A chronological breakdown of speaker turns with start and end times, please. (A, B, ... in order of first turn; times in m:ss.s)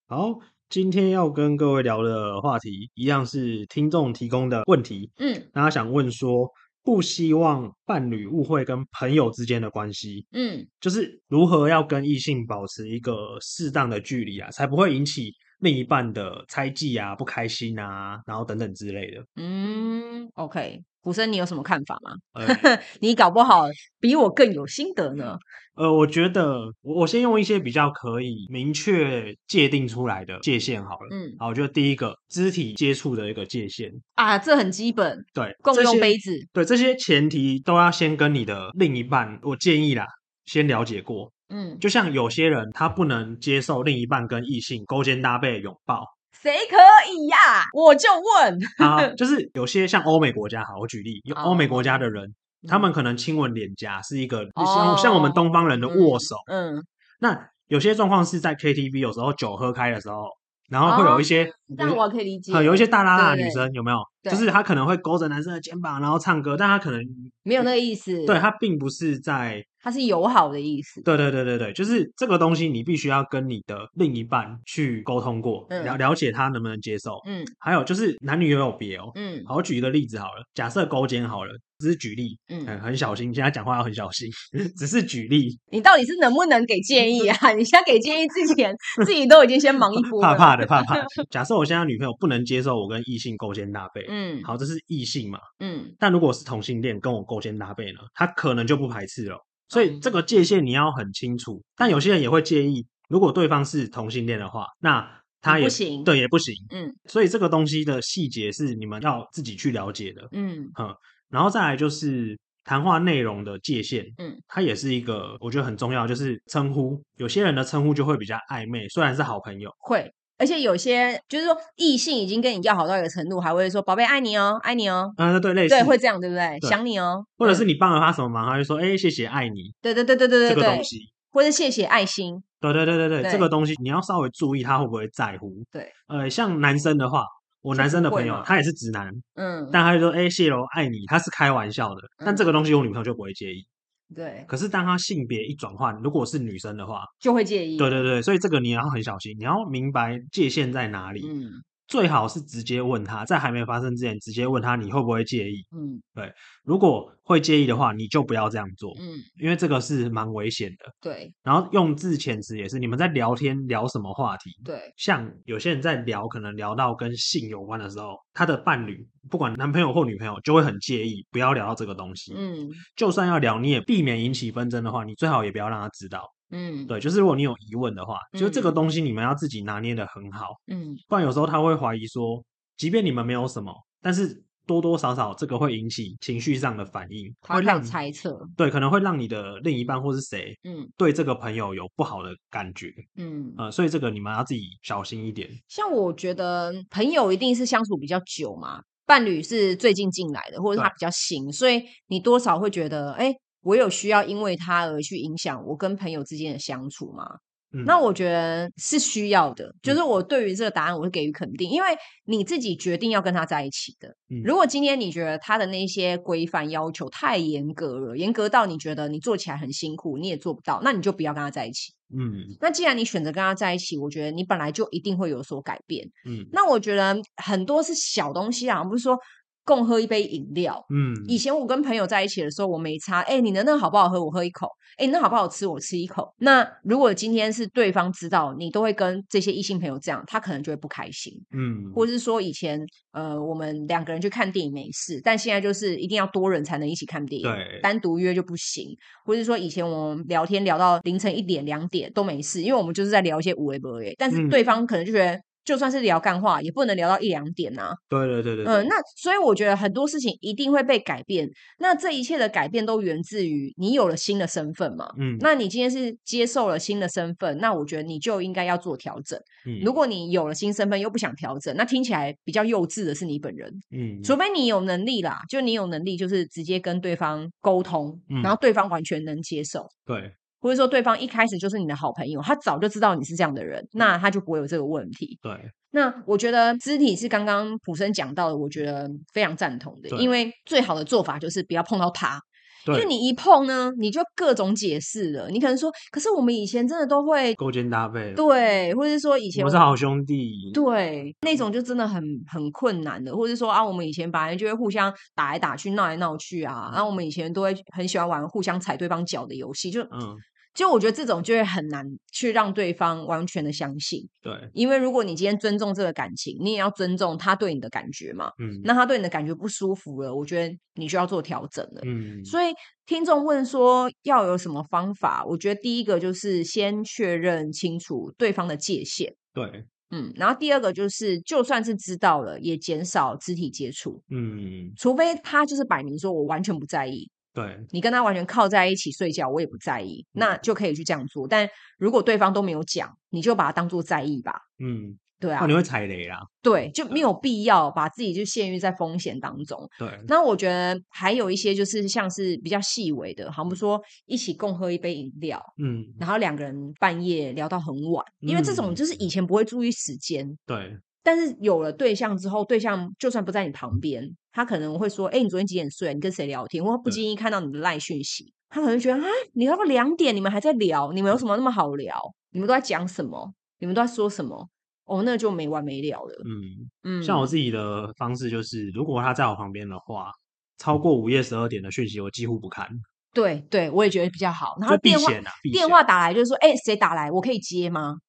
0:00.1-0:10.3 A
0:05.2-0:05.5 B
0:10.3-0:10.7 B
0:10.8-0:19.3 A
0:19.4-0:25.4 B
0:22.4-0:22.7 A
0:25.8-0:34.0 A
0:31.1-0:31.4 B
0:34.2-0:36.5 B
0:35.4-0:46.1 A
0:41.5-0:41.8 B
0:46.3-0:49.1 B
0:48.8-0:56.4 A
0:51.3-0:52.1 B
0:52.6-0:52.9 B
0:54.6-0:56.9 B
0:57.2-1:07.7 A
1:00.8-1:03.7 B
1:07.4-1:08.4 B
1:08.3-1:09.7 A
1:09.8-1:11.1 B
1:11.0-1:25.6 A
1:15.7-1:16.0 B
1:17.2-1:17.5 B
1:19.2-1:19.5 B
1:22.5-1:22.8 B
1:25.7-1:31.2 B
1:30.0-1:35.4 A
1:34.0-1:34.5 B
1:35.6-1:36.0 B
1:36.0-1:59.8 A
1:39.7-1:40.1 B
1:45.5-1:46.1 B
1:46.7-1:47.0 B
1:50.3-1:50.8 B
1:59.8-2:05.2 B
2:05.2-2:06.0 A
2:05.7-2:07.7 B
2:07.4-2:09.8 A
2:09.8-2:12.4 B
2:10.5-2:11.1 A
2:12.6-2:23.7 A
2:13.2-2:13.5 B
2:17.7-2:18.5 B
2:19.4-2:19.8 B
2:22.2-2:22.5 B
2:24.1-2:24.5 B
2:24.5-2:27.1 A
2:27.2-2:28.0 B
2:27.8-2:31.3 A
2:31.2-2:31.6 B
2:31.9-2:40.9 A
2:35.7-2:36.0 B
2:39.0-2:39.3 B
2:41.0-2:41.3 B
2:41.4-2:52.4 A
2:44.6-2:44.9 B
2:52.3-2:52.8 B
2:53.0-2:56.3 A
2:56.5-2:56.9 B
2:56.9-3:00.6 A
2:58.3-2:58.8 B
3:00.7-3:01.0 B
3:01.1-3:08.0 A
3:07.4-3:08.6 B
3:08.6-3:13.0 A
3:10.6-3:10.9 B
3:13.2-3:13.6 B
3:13.6-3:15.6 A
3:15.7-3:41.9 B
3:42.1-3:42.6 A
3:42.6-4:18.0 B
3:46.2-3:46.5 A
3:50.9-3:51.4 A
4:01.5-4:02.1 A
4:07.4-4:07.9 A
4:14.3-4:14.6 A
4:18.1-4:18.9 A
4:18.6-4:39.9 B
4:25.2-4:25.5 A
4:29.7-4:29.9 A
4:33.9-4:34.4 A
4:38.3-4:38.6 A
4:40.1-4:40.3 A
4:40.6-4:45.4 B
4:45.4-4:45.7 A
4:45.9-4:57.6 B
4:57.6-4:58.4 A
4:58.4-4:59.9 B
4:59.5-5:00.8 A
5:00.7-5:10.1 B
5:10.1-5:10.4 A
5:10.7-5:29.4 B
5:14.4-5:14.7 A
5:18.6-5:18.9 A
5:22.0-5:22.6 A
5:29.6-5:29.9 A
5:30.1-5:34.2 B
5:34.3-5:35.0 A
5:35.0-5:37.3 B
5:37.6-5:37.9 A
5:37.9-5:44.6 B
5:44.8-5:46.5 A
5:45.4-5:45.7 B
5:46.6-6:00.6 B
5:50.0-5:50.3 A
5:55.8-5:56.2 A
5:58.4-5:59.0 A
6:00.7-6:01.0 A
6:01.2-6:16.5 B
6:16.4-6:23.0 A
6:17.0-6:17.5 B
6:23.3-6:28.2 B
6:24.9-6:26.0 A